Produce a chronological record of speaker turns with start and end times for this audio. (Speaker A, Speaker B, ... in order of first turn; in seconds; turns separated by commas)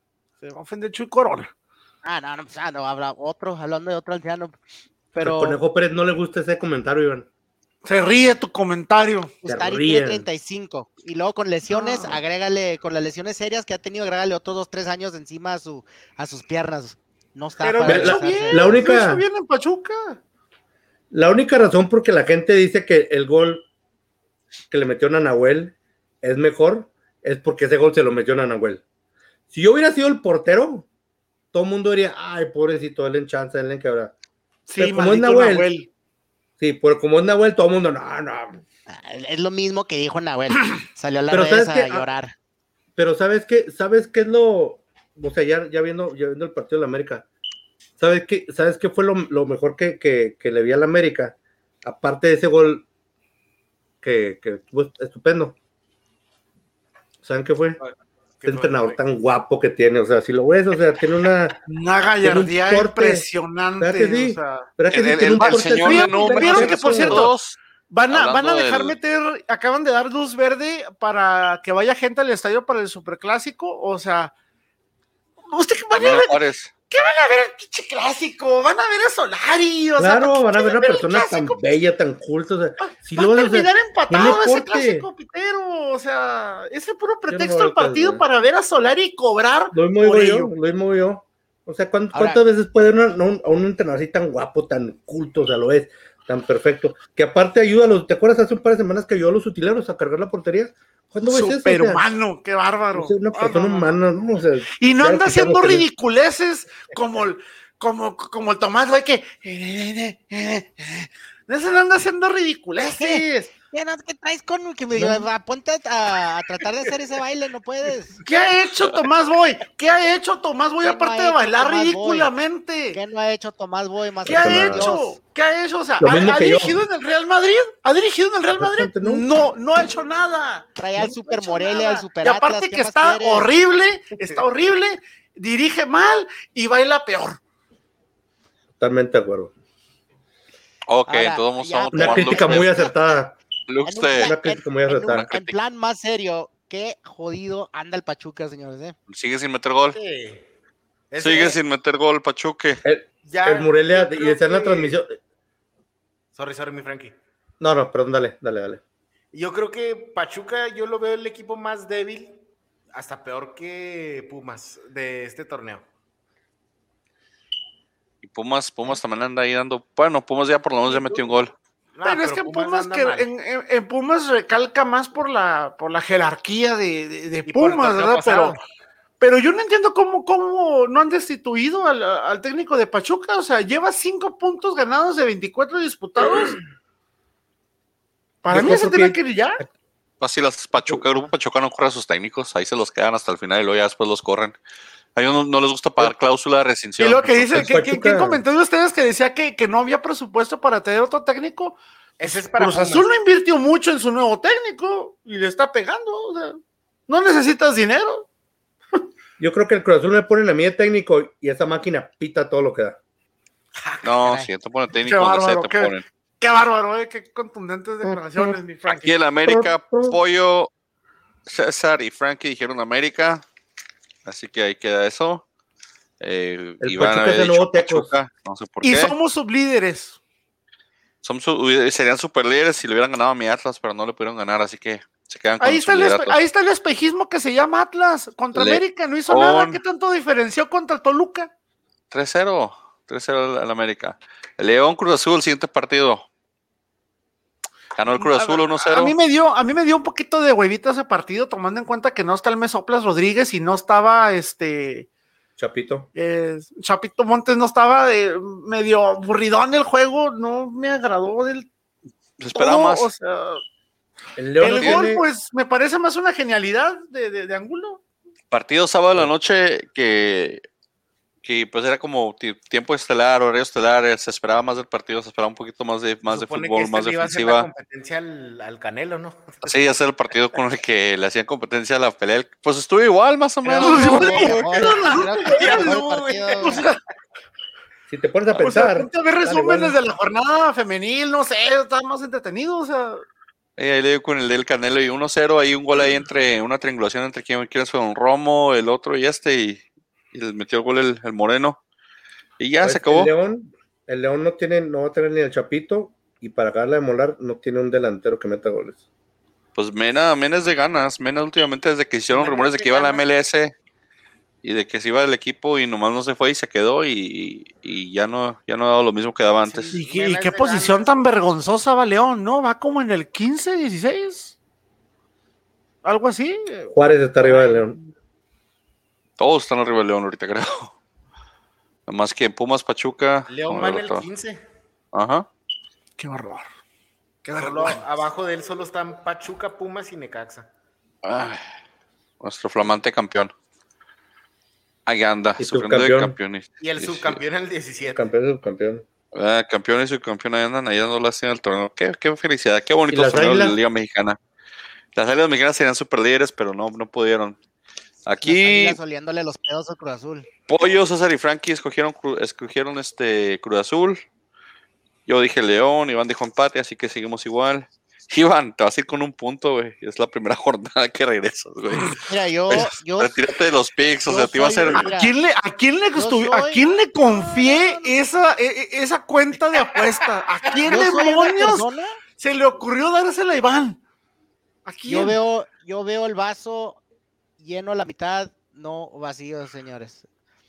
Speaker A: 0.4-1.5, Speaker B: 2.0-4.5, Speaker B: 5.1-5.6, Speaker C: 5.2-7.2, Speaker A: 7.8-9.3, Speaker B: 9.4-18.8, Speaker C: 9.4-10.2, Speaker A: 11.7-12.2, Speaker A: 17.6-20.2, Speaker C: 17.8-19.2, Speaker C: 21.1-23.6, Speaker C: 24.7-28.8, Speaker C: 29.5-30.9, Speaker C: 31.5-34.1, Speaker A: 34.7-35.9, Speaker C: 34.8-35.7, Speaker C: 36.6-38.6, Speaker B: 38.9-42.3, Speaker C: 41.3-42.1, Speaker C: 43.0-47.2, Speaker C: 48.0-52.8, Speaker C: 54.0-55.5, Speaker C: 57.2-57.8, Speaker D: 58.4-59.0, Speaker C: 58.4-61.6, Speaker A: 61.6-64.7, Speaker C: 62.2-63.2, Speaker C: 63.8-67.3, Speaker E: 64.9-67.6, Speaker A: 65.3-67.3, Speaker A: 67.9-74.3, Speaker E: 68.1-69.0, Speaker A: 75.5-81.6, Speaker E: 75.9-76.7, Speaker C: 80.0-85.1, Speaker A: 83.1-90.5, Speaker C: 87.3-88.2, Speaker C: 89.7-102.0, Speaker B: 92.1-92.4, Speaker A: 101.3-104.0, Speaker C: 102.9-105.8, Speaker A: 104.8-113.5, Speaker B: 112.8-118.2, Speaker C: 114.9-115.3, Speaker A: 118.2-123.0, Speaker B: 120.8-122.3, Speaker B: 122.9-125.1, Speaker A: 124.2-137.4, Speaker C: 124.2-124.9, Speaker C: 126.0-126.8, Speaker C: 128.6-129.2, Speaker B: 130.8-133.5, Speaker C: 138.8-139.5, Speaker E: 140.9-142.7, Speaker B: 141.1-142.9, Speaker C: 141.9-143.4, Speaker E: 143.7-144.3, Speaker B: 143.8-148.9, Speaker C: 144.1-145.3, Speaker E: 145.1-145.5, Speaker E: 149.1-150.0, Speaker D: 149.9-150.4, Speaker D: 151.1-151.6, Speaker E: 151.2-152.8, Speaker C: 152.8-155.1, Speaker D: 153.2-155.0, Speaker D: 156.3-157.2, Speaker C: 157.6-158.8, Speaker D: 159.3-162.3, Speaker D: 162.9-165.8, Speaker E: 168.2-171.5, Speaker D: 170.9-171.2, Speaker D: 171.9-173.3, Speaker A: 172.0-178.6, Speaker D: 177.4-178.6, Speaker A: 179.2-186.6, Speaker A: 188.4-189.6, Speaker C: 188.5-189.2, Speaker E: 190.2-194.5, Speaker E: 195.2-197.7, Speaker A: 197.0-201.8, Speaker C: 197.5-198.4, Speaker D: 202.2-203.1, Speaker A: 202.5-208.2, Speaker C: 209.4-213.0, Speaker D: 213.8-214.1, Speaker E: 214.0-216.0, Speaker B: 214.2-214.5, Speaker A: 214.9-219.2, Speaker C: 218.1-218.5, Speaker E: 218.9-220.7, Speaker C: 219.4-220.2, Speaker E: 221.4-223.4, Speaker E: 224.2-225.4, Speaker E: 226.2-229.1, Speaker C: 226.8-228.1, Speaker A: 228.8-230.2, Speaker E: 231.2-236.4, Speaker A: 235.6-241.5, Speaker E: 238.5-239.8, Speaker E: 242.1-246.2, Speaker E: 247.9-249.2, Speaker A: 248.1-255.1, Speaker C: 255.6-256.1, Speaker A: 256.1-261.7, Speaker E: 262.4-263.1, Speaker A: 262.5-263.6, Speaker C: 264.4-265.2, Speaker A: 264.6-268.0, Speaker E: 264.7-265.1, Speaker E: 268.5-270.6, Speaker E: 271.4-277.7, Speaker D: 276.3-279.7, Speaker E: 279.6-284.6, Speaker B: 283.6-286.8, Speaker A: 283.8-286.0, Speaker D: 284.9-286.9, Speaker A: 286.6-287.0, Speaker C: 288.1-290.0, Speaker A: 288.6-293.2, Speaker E: 293.8-299.8, Speaker E: 300.3-301.8, Speaker E: 302.6-303.3, Speaker C: 302.8-309.0, Speaker E: 309.7-313.7, Speaker D: 312.3-313.2, Speaker E: 314.6-319.9, Speaker D: 319.7-321.1, Speaker A: 319.9-324.6, Speaker A: 326.0-326.9, Speaker C: 326.9-328.0, Speaker A: 327.5-327.8, Speaker E: 329.4-330.9, Speaker E: 332.1-334.2, Speaker D: 333.5-334.6, Speaker E: 335.1-335.4, Speaker A: 336.2-336.7, Speaker A: 337.4-338.0, Speaker D: 337.6-340.7, Speaker E: 341.2-341.6, Speaker E: 342.4-343.5, Speaker E: 345.1-347.4, Speaker C: 345.6-346.4, Speaker D: 346.8-348.3, Speaker C: 348.1-349.0, Speaker E: 349.3-354.4, Speaker C: 353.1-353.8, Speaker E: 355.1-357.6, Speaker E: 358.2-359.0, Speaker B: 358.4-360.5, Speaker E: 360.7-364.2, Speaker E: 365.2-375.1, Speaker B: 372.2-373.4, Speaker B: 374.2-375.3, Speaker A: 374.9-384.0, Speaker B: 376.1-378.1, Speaker B: 380.9-382.2, Speaker A: 384.9-385.4, Speaker B: 385.0-387.0, Speaker B: 387.6-390.2